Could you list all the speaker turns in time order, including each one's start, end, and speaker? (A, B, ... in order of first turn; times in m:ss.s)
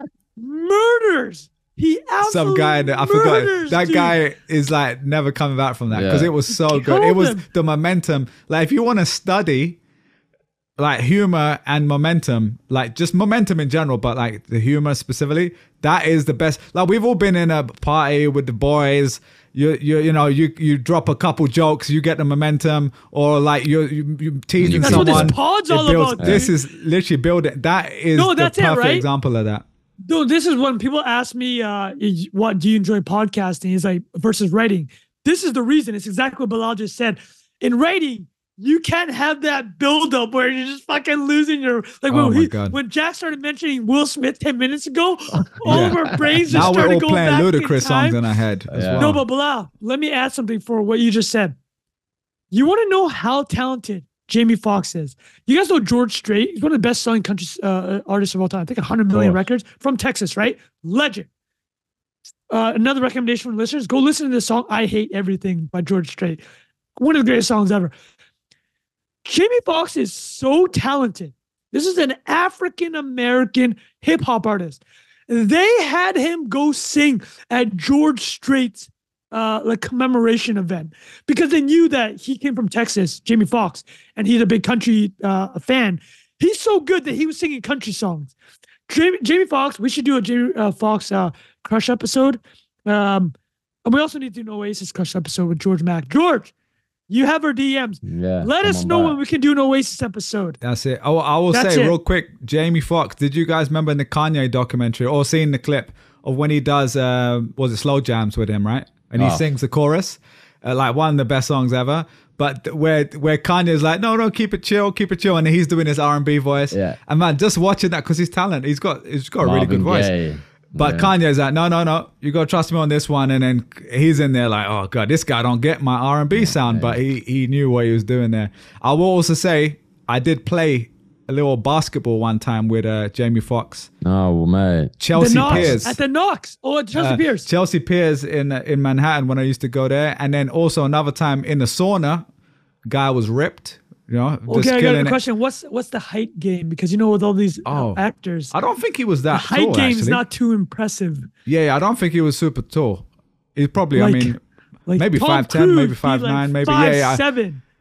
0:00.4-0:04.2 A
0:02.2-0:09.8 B
0:05.9-0:06.3 C
0:06.6-0:07.4 A
0:10.8-0:29.6 B
0:24.6-0:25.4 C
0:24.8-0:26.5 A
0:26.2-0:26.5 C
0:28.2-0:29.1 A
0:30.1-0:48.2 A
0:42.1-0:42.8 B
0:45.7-0:49.2 B
0:45.7-0:46.8 C
0:48.7-0:49.1 C
0:48.9-0:51.6 A
0:52.5-1:01.3 A
0:59.1-0:59.4 C
1:02.5-1:06.4 A
1:07.0-1:07.9 A
1:09.2-1:28.3 A
1:28.9-1:36.5 A
1:37.1-1:40.6 A
1:38.0-1:39.2 C
1:40.6-2:00.1 B
1:41.5-1:42.0 A
1:49.2-1:49.4 C
1:56.7-1:57.0 C
1:59.4-2:01.1 C
2:00.8-2:13.9 B
2:06.3-2:07.0 C
2:14.0-2:15.8 C
2:15.0-2:16.0 B
2:15.2-2:17.5 A
2:16.9-2:22.3 B
2:22.8-2:25.2 B
2:24.5-2:28.5 A
2:27.7-2:30.2 B
2:29.3-2:31.3 A
2:31.5-2:34.4 B
2:33.9-2:34.4 A
2:34.9-2:37.6 A
2:35.0-2:37.2 B